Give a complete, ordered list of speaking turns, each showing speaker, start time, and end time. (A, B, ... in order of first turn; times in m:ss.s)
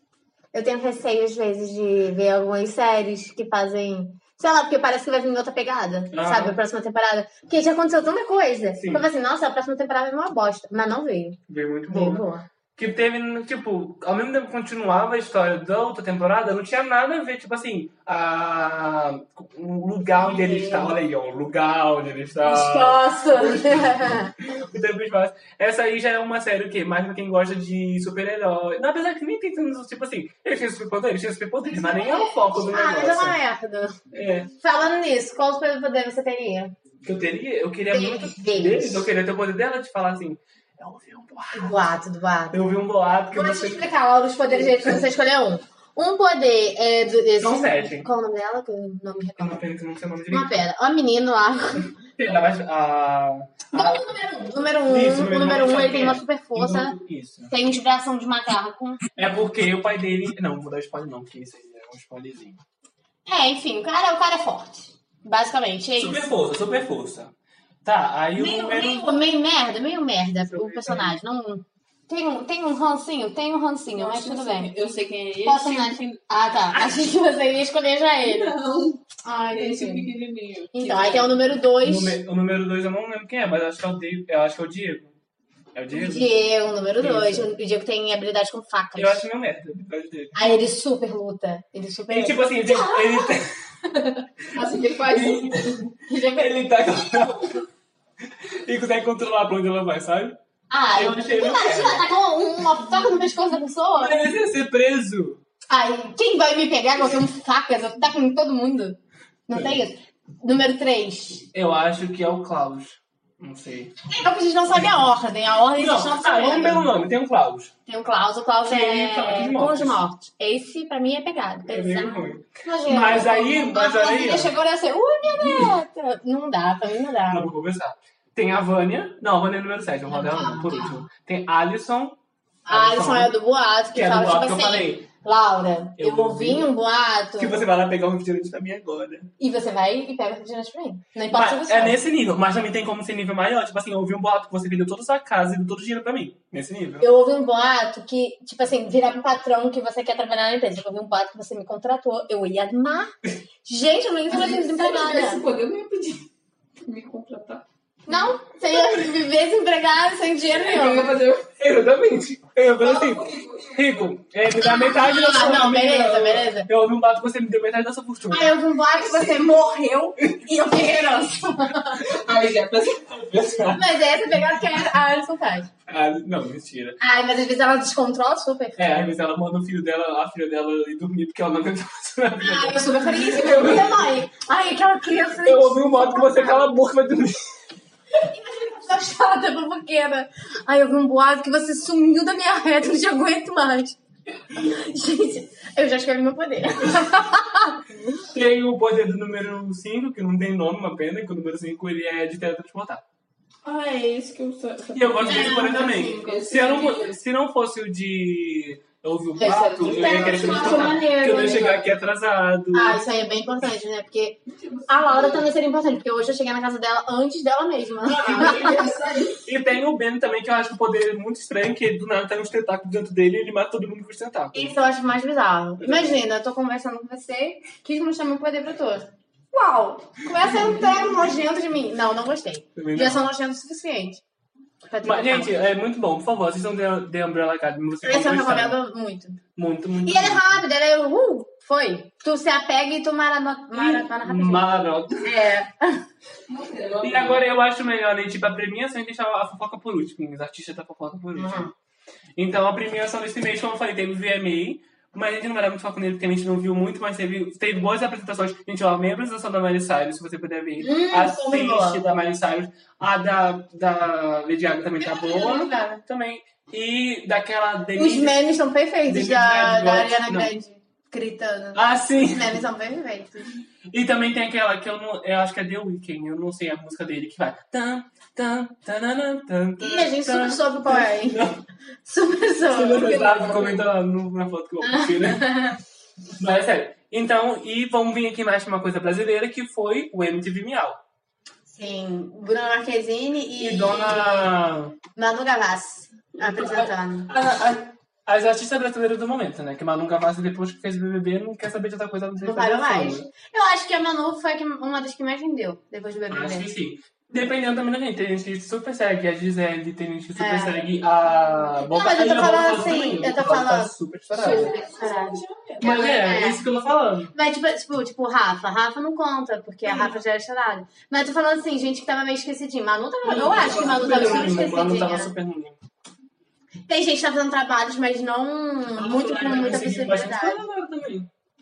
0:00.5-0:11.4 A
0:06.1-0:06.6 B
0:08.8-0:09.1 B
0:11.5-0:12.2 B
0:11.9-0:12.5 A
0:12.8-0:33.4 B
0:20.2-0:20.9 A
0:22.4-0:24.4 A
0:31.6-0:34.0 A
0:34.1-0:34.5 B
0:34.6-0:36.7 A
0:37.0-0:41.9 B
0:37.9-0:39.1 A
0:41.5-0:42.6 A
0:42.5-0:43.9 B
0:43.3-0:49.6 A
0:44.6-0:45.0 B
0:47.4-0:48.1 B
0:49.4-0:50.6 B
0:50.3-0:51.9 A
0:52.2-0:54.0 B
0:53.7-0:57.0 A
0:54.9-0:57.5 B
0:57.5-0:59.0 A
0:59.1-1:02.6 B
1:03.2-1:06.3 A
1:06.0-1:07.3 B
1:07.8-1:09.1 B
1:08.4-1:14.7 A
1:10.5-1:11.2 B
1:13.9-1:16.0 C
1:15.4-1:18.5 A
1:16.7-1:17.0 B
1:18.2-1:19.0 C
1:19.2-1:20.1 A
1:19.5-1:21.4 C
1:20.7-1:22.2 A
1:21.8-1:25.1 B
1:25.8-1:26.3 B
1:25.9-1:29.2 A
1:27.0-1:27.5 B
1:29.0-1:30.6 B
1:30.4-1:33.3 A
1:32.1-1:33.5 B
1:34.4-1:35.7 C
1:35.1-1:37.6 B
1:36.1-1:36.6 A
1:38.2-1:40.4 B
1:40.7-1:44.2 A
1:40.9-1:42.1 B
1:44.0-1:45.4 B
1:45.7-1:51.5 A
1:49.5-1:49.8 B
1:51.5-1:54.0 B
1:54.1-1:56.9 A
1:55.8-1:57.7 B
1:57.9-2:07.5 A
1:58.6-2:00.0 B
2:01.7-2:04.5 B
2:05.4-2:05.7 B
2:07.3-2:13.3 B
2:10.1-2:11.0 A
2:12.7-2:17.6 A
2:13.9-2:15.0 B
2:16.0-2:16.7 B
2:17.4-2:19.3 B
2:19.4-2:22.0 A
2:21.3-2:27.1 B
2:27.0-2:33.1 A
2:33.6-2:35.4 A
2:34.3-2:36.3 C
2:36.8-2:37.6 C
2:38.1-2:41.1 A
2:40.6-2:41.5 C
2:41.6-2:48.6 B
2:42.8-2:44.2 C
2:44.6-2:46.7 A
2:48.3-2:52.1 A
2:52.0-2:53.0 C
2:53.0-2:53.9 B
2:53.7-2:55.7 A
2:55.9-2:57.0 B
2:57.0-2:58.8 A
2:58.8-3:04.2 B
3:02.4-3:06.6 A
3:05.4-3:07.5 B
3:08.2-3:14.0 A
3:14.5-3:17.8 A
3:18.2-3:23.0 B
3:23.6-3:27.2 C
3:24.9-3:33.0 B
3:25.2-3:26.4 A
3:29.4-3:31.8 A
3:29.4-3:31.8 C
3:32.7-3:38.9 A
3:34.5-3:35.5 C
3:38.0-3:38.9 B
3:38.2-3:39.5 C
3:39.4-3:44.8 B
3:44.5-3:54.2 A
3:45.8-3:46.2 B
3:52.8-3:53.3 B
3:54.9-3:55.6 A
3:55.0-3:58.8 B
3:58.0-3:59.4 A
3:59.6-4:00.6 B
4:00.0-4:06.0 A
4:03.7-4:05.3 B
4:06.5-4:07.4 C
4:07.0-4:11.7 B
4:11.4-4:11.7 A
4:12.4-4:28.4 B
4:20.8-4:22.0 A
4:25.0-4:26.0 A
4:28.0-4:33.5 A
4:29.0-4:30.5 B
4:31.7-4:32.6 B
4:33.9-4:41.6 B
4:39.8-4:41.4 A
4:42.0-4:43.1 A
4:42.7-4:45.5 B
4:42.9-4:43.9 C
4:44.8-4:45.8 A
4:46.4-4:51.0 B
4:51.7-4:54.5 A
4:53.6-4:55.0 B
4:55.2-4:57.3 A
4:56.4-5:03.3 B
5:02.4-5:06.7 A
5:06.3-5:14.7 B
5:10.4-5:10.8 A
5:11.9-5:16.6 A
5:14.3-5:16.1 C
5:15.8-5:17.3 B
5:17.3-5:25.3 A
5:19.8-5:20.2 B
5:23.2-5:25.8 B
5:26.9-5:30.6 A
5:29.0-5:31.3 B